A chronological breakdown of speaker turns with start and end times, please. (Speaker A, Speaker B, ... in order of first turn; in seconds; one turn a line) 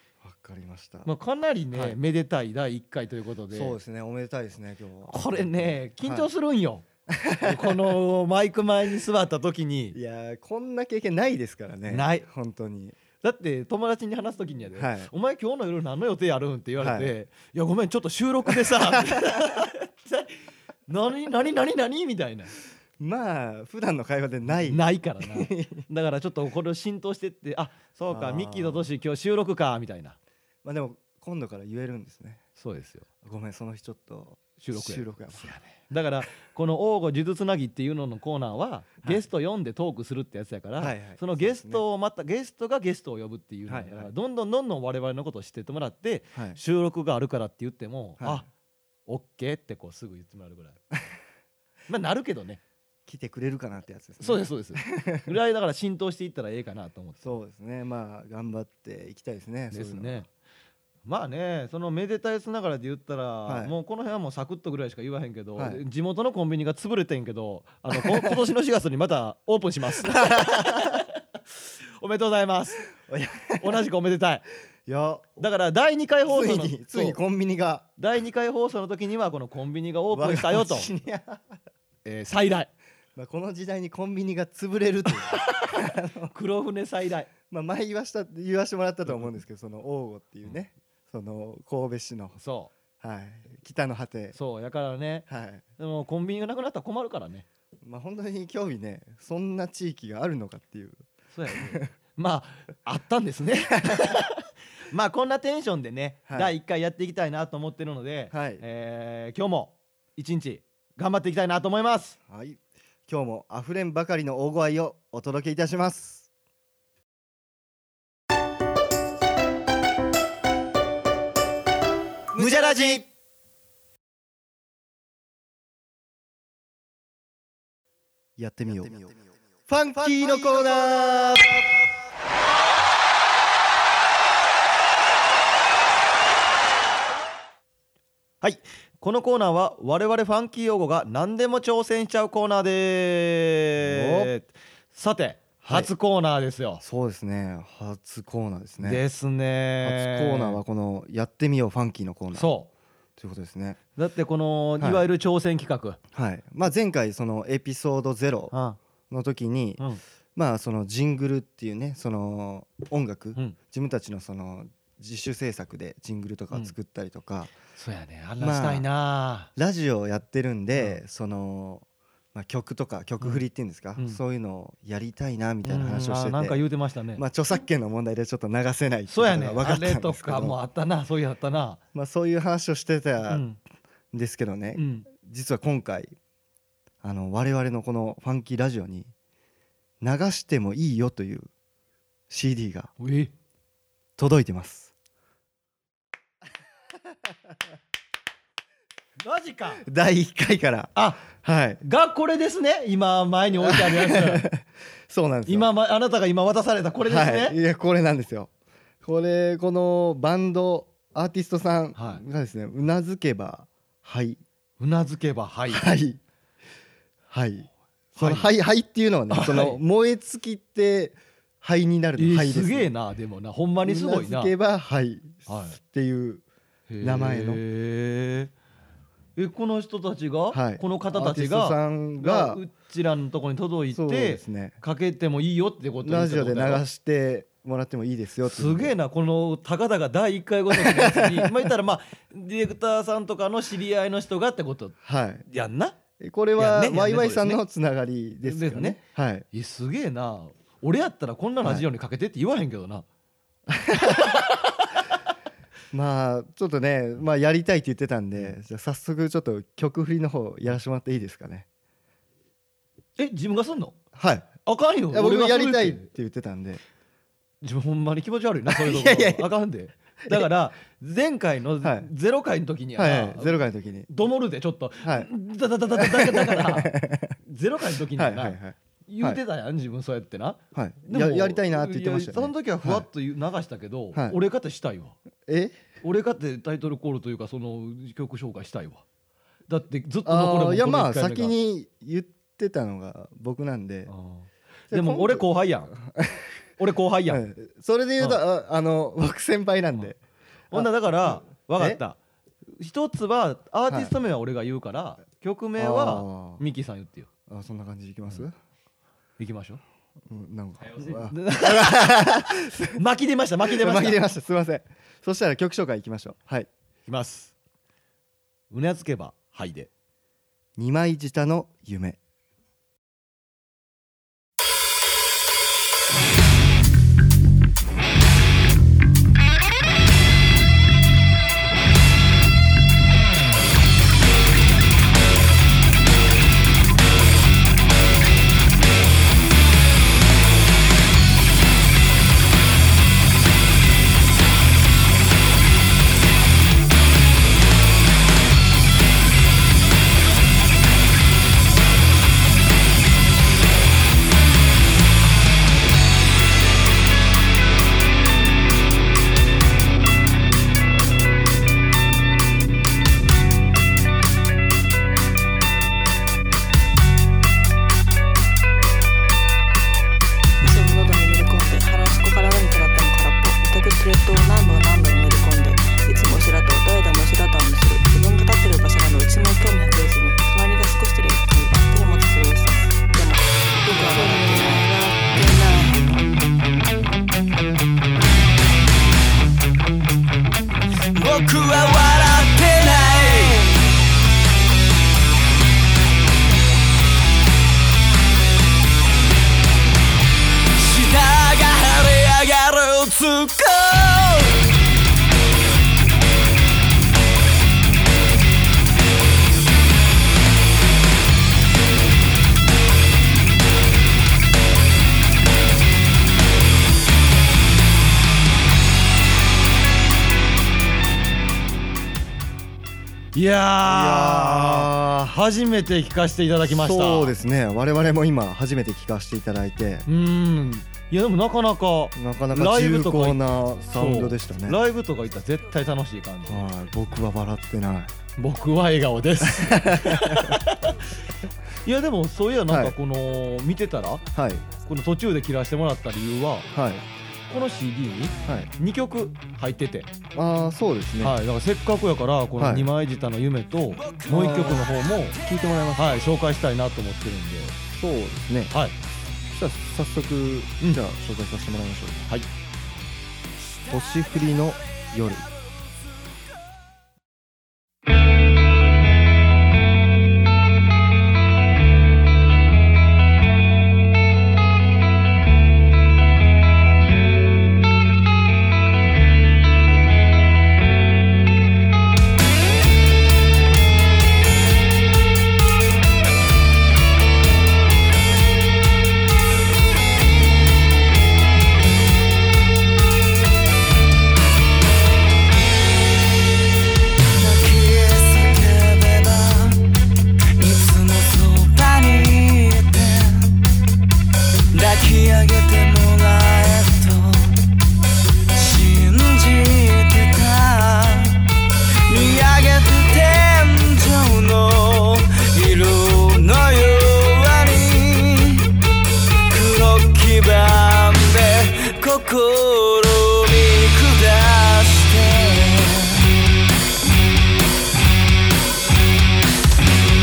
Speaker A: 0.2-1.1
Speaker B: 1.1-3.8
Speaker A: 1.7-2.0
Speaker A: 3.5-6.3
Speaker B: 5.1-6.9
Speaker A: 7.1-8.0
Speaker B: 7.4-10.0
Speaker A: 9.9-13.0
Speaker B: 11.9-12.3
Speaker B: 13.2-20.4
Speaker A: 14.8-15.1
Speaker A: 16.8-17.1
Speaker A: 18.5-19.6
Speaker B: 20.9-22.5
Speaker A: 23.0-25.9
Speaker B: 24.5-30.2
Speaker A: 28.1-28.9
Speaker A: 30.6-32.4
Speaker B: 32.6-33.1
Speaker A: 33.2-35.5
Speaker B: 34.6-48.5
Speaker A: 40.8-41.8
Speaker A: 43.7-44.1
Speaker A: 48.2-48.5
Speaker B: 49.1-50.8
Speaker B: 51.9-52.6
Speaker A: 53.1-55.3
Speaker B: 54.2-57.4
Speaker A: 57.2-60.2
Speaker B: 59.7-60.3
Speaker B: 61.1-71.1
Speaker A: 63.5-63.7
Speaker A: 65.6-65.8
Speaker A: 67.9-68.4
Speaker A: 70.0-71.0
Speaker B: 72.0-72.9
Speaker A: 72.9-73.8
Speaker B: 73.6-74.4
Speaker A: 74.9-75.4
Speaker B: 75.4-77.2
Speaker A: 76.3-77.9
Speaker B: 78.0-80.9
Speaker A: 80.1-81.6
Speaker B: 82.0-82.7
Speaker A: 83.2-86.3
Speaker B: 85.3-87.3
Speaker A: 87.5-92.4
Speaker B: 89.1-89.3
Speaker B: 92.4-92.7
Speaker A: 93.0-94.4
Speaker B: 94.3-95.3
Speaker A: 95.3-95.6
Speaker B: 95.8-97.5
Speaker A: 97.8-101.9
Speaker B: 101.3-112.2
Speaker A: 103.7-104.2
Speaker A: 106.3-106.5
Speaker A: 108.3-108.6
Speaker A: 112.3-116.3
Speaker A: 122.3-123.0
Speaker B: 122.3-123.0
Speaker A: 128.4-131.6
Speaker B: 130.0-131.6
Speaker B: 138.4-146.8
Speaker A: 143.8-144.3
Speaker A: 145.6-145.9
Speaker A: 146.8-149.0
Speaker B: 148.8-150.6
Speaker A: 149.8-152.5
Speaker B: 152.3-152.7
Speaker A: 153.2-153.8
Speaker B: 154.0-156.0
Speaker A: 154.8-155.0
Speaker A: 156.1-158.5
Speaker B: 158.5-158.8
Speaker A: 159.1-159.8
Speaker A: 160.4-167.5
Speaker B: 167.7-169.5
Speaker A: 168.4-168.8
Speaker A: 169.6-176.6
Speaker B: 173.2-173.4
Speaker B: 175.6-177.2
Speaker A: 177.2-180.6
Speaker B: 179.1-181.8
Speaker A: 181.9-183.4
Speaker B: 183.3-183.6
Speaker A: 184.1-186.2
Speaker B: 184.8-185.1
Speaker A: 187.0-189.1
Speaker A: 190.0-191.5
Speaker A: 192.3-192.9
Speaker B: 193.0-193.3
Speaker A: 194.2-194.9
Speaker B: 199.2-199.8
Speaker A: 199.8-201.8
Speaker B: 200.9-201.3
Speaker B: 201.8-204.5
Speaker A: 203.6-205.7
Speaker B: 205.5-207.6
Speaker A: 207.0-208.5
Speaker A: 209.0-214.4
Speaker B: 212.0-212.2
Speaker B: 214.8-215.9
Speaker A: 215.7-216.2
Speaker A: 217.3-222.9
Speaker B: 218.2-218.5
Speaker B: 219.3-219.8
Speaker B: 222.2-224.5
Speaker A: 223.8-226.4
Speaker B: 225.5-225.8
Speaker B: 226.9-228.5
Speaker A: 227.0-227.6
Speaker B: 229.4-236.8
Speaker A: 230.5-232.6
Speaker A: 233.9-234.8
Speaker A: 236.0-238.9
Speaker B: 238.4-246.0
Speaker A: 240.7-241.7
Speaker A: 245.0-245.4
Speaker A: 246.2-249.5
Speaker B: 246.6-247.6
Speaker B: 248.4-249.0
Speaker B: 249.5-253.1
Speaker A: 253.7-254.4
Speaker B: 253.9-254.9
Speaker A: 255.9-261.7
Speaker B: 263.2-264.0
Speaker A: 264.1-264.6
Speaker B: 264.6-266.1
Speaker A: 265.1-266.8
Speaker B: 267.6-285.2
Speaker A: 268.7-269.5
Speaker A: 271.8-272.1
Speaker A: 273.0-274.1
Speaker A: 275.0-275.3
Speaker A: 275.9-277.4
Speaker A: 278.1-279.4
Speaker A: 280.8-283.1
Speaker A: 284.1-284.4
Speaker A: 285.5-285.8
Speaker B: 286.0-289.0
Speaker B: 289.7-291.6
Speaker A: 290.2-294.1
Speaker B: 294.1-295.9
Speaker A: 294.9-296.5
Speaker B: 296.8-297.4
Speaker A: 297.3-300.2
Speaker B: 300.7-302.2
Speaker A: 300.7-302.0
Speaker B: 302.8-307.3
Speaker A: 303.9-304.1
Speaker A: 305.8-306.6
Speaker A: 307.5-308.5
Speaker B: 309.4-309.8
Speaker A: 310.3-313.0
Speaker B: 310.9-314.2
Speaker A: 313.7-316.7
Speaker B: 317.1-317.5
Speaker B: 318.7-319.9
Speaker A: 320.8-322.2
Speaker C: 370.6-386.3
Speaker D: 391.1-393.8
Speaker D: 400.8-404.6
Speaker B: 423.3-427.4
Speaker A: 423.9-425.4
Speaker A: 426.6-430.1
Speaker B: 430.1-433.4
Speaker A: 432.1-434.8
Speaker B: 433.9-436.7
Speaker A: 436.5-438.1
Speaker B: 438.4-441.1
Speaker A: 439.4-440.6
Speaker B: 441.8-444.2
Speaker A: 442.7-443.0
Speaker A: 444.3-444.6
Speaker B: 444.8-446.7
Speaker A: 446.7-447.0
Speaker B: 447.5-450.1
Speaker A: 448.4-448.7
Speaker A: 450.3-451.4
Speaker B: 451.2-455.4
Speaker A: 452.6-452.9
Speaker A: 454.3-454.9
Speaker A: 455.4-456.2
Speaker B: 456.0-457.8
Speaker A: 457.9-458.7
Speaker B: 458.7-459.0
Speaker A: 459.5-462.3
Speaker A: 463.9-465.5
Speaker D: 497.4-499.8
Speaker D: 500.6-503.5
Speaker D: 504.7-507.5
Speaker D: 508.5-511.4
Speaker D: 512.1-518.7
Speaker D: 519.5-526.3